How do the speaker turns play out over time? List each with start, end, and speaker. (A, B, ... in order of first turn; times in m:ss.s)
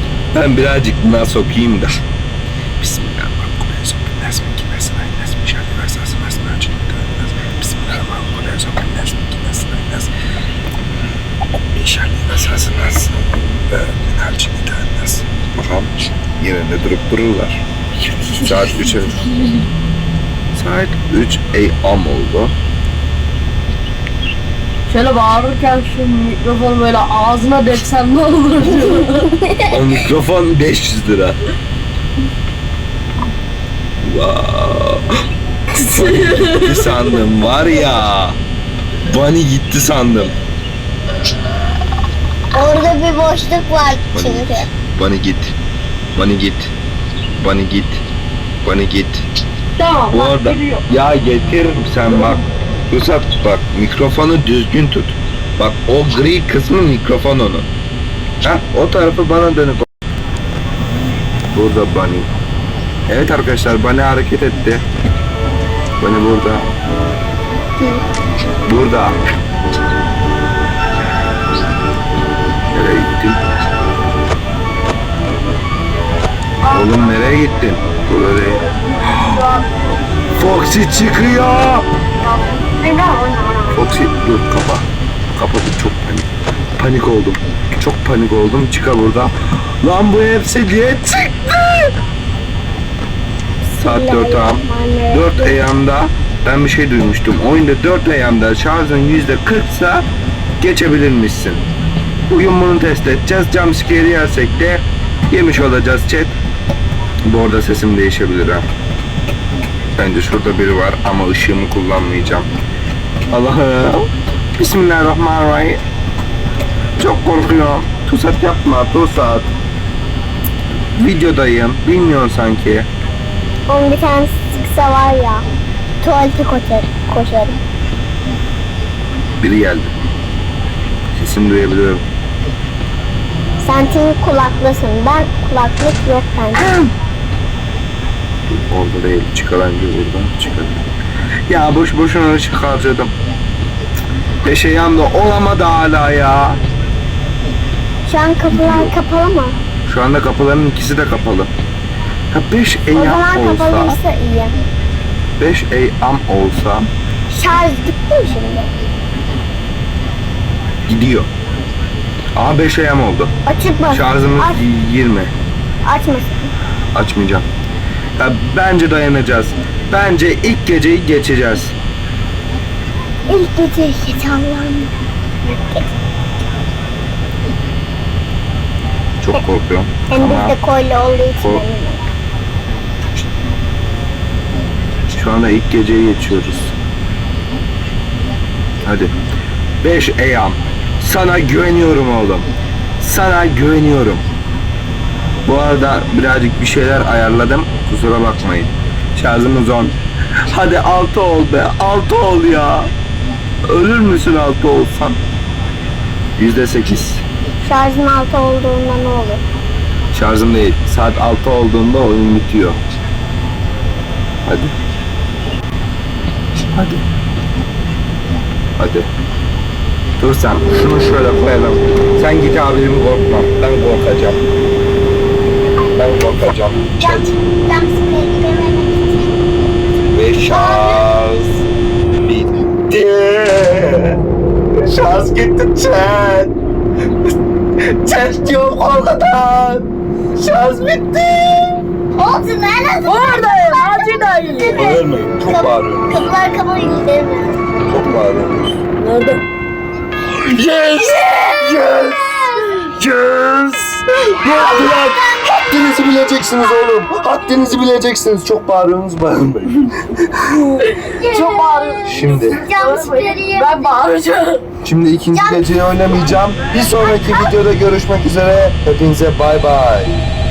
0:00.3-0:01.9 A
0:02.8-0:10.1 A
0:11.7-0:17.6 A
0:18.0-0:19.7 B
0:18.3-0:19.3 A
0:20.5-0:22.5 A
0:24.9-0:29.4 B
0:29.3-0:29.8 C
0:29.7-0:31.4 A
0:34.0-0:35.1 A
0:35.7-0:37.2 B
0:35.9-0:38.4 A
0:39.0-0:40.3 A
0:42.5-0:44.7 C
0:44.1-0:45.6 A
0:46.1-0:46.7 A
0:47.4-0:48.0 A
0:48.6-0:49.2 A
0:49.8-0:50.8 B
0:50.1-0:57.7 A
0:58.4-0:59.8 A
1:01.5-1:02.3 A
1:03.1-1:04.8 A
1:06.0-1:06.7 A
1:07.8-1:08.0 C
1:08.6-1:09.2 A
1:12.7-1:13.4 A
1:16.6-1:17.0 B
1:16.7-1:19.4 A
1:18.7-1:19.8 B
1:20.3-1:21.9 A
1:22.2-1:24.0 B
1:23.7-1:31.9 A
1:33.6-1:35.6 C
1:33.8-1:40.0 A
1:40.6-1:41.6 A
1:42.3-1:46.3 A
1:47.2-1:48.6 A
1:49.9-1:52.5 A
1:53.3-1:55.8 A
1:57.0-1:59.5 A
2:01.0-2:02.9 A
2:03.7-2:05.4 C
2:06.0-2:07.6 C
2:09.4-2:09.9 A
2:11.1-2:12.0 A
2:13.6-2:16.6 C
2:18.5-2:20.9 A
2:21.5-2:23.1 A
2:24.4-2:26.6 A
2:28.0-2:29.6 C
2:28.5-2:28.9 A
2:29.8-2:31.5 A
2:32.3-2:34.0 A
2:32.9-2:34.6 C
2:35.4-2:36.9 A
2:37.3-2:38.7 C
2:40.9-2:41.3 A
2:42.4-2:43.3 A
2:43.4-2:44.6 C
2:43.9-2:45.3 A
2:45.8-2:46.5 C
2:46.9-2:47.4 A
2:48.2-2:51.7 A
2:53.3-2:54.9 C
2:55.4-2:55.9 C
2:59.2-3:00.5 A
3:00.1-3:02.0 C
3:05.1-3:06.8 A
3:08.8-3:09.1 A
3:09.8-3:12.5 A
3:13.0-3:14.2 A
3:15.4-3:20.0 A
3:20.5-3:22.9 A
3:23.7-3:25.2 A
3:26.4-3:27.2 A
3:27.6-3:29.4 C
3:30.1-3:32.8 A
3:34.4-3:34.7 A
3:36.7-3:37.0 A
3:38.8-3:39.1 A
3:40.2-3:44.4 A
3:45.9-3:47.3 A
3:47.0-3:49.7 C
3:50.1-3:51.6 A
3:50.5-3:51.1 C
3:52.2-3:54.2 A
3:54.7-3:56.5 A
3:57.8-3:59.8 A
4:00.4-4:01.8 A
4:02.1-4:07.6 C
4:03.0-4:04.9 B
4:04.8-4:06.3 A
4:07.8-4:08.8 A
4:09.0-4:09.4 B
4:10.3-4:12.2 A
4:11.0-4:12.9 C
4:11.6-4:12.1 B
4:13.0-4:20.6 A
4:14.3-4:17.8 C
4:14.4-4:14.9 B
4:20.8-4:24.6 B
4:20.8-4:24.0 C
4:22.0-4:22.6 A
4:24.8-4:30.2 A
4:25.3-4:27.5 C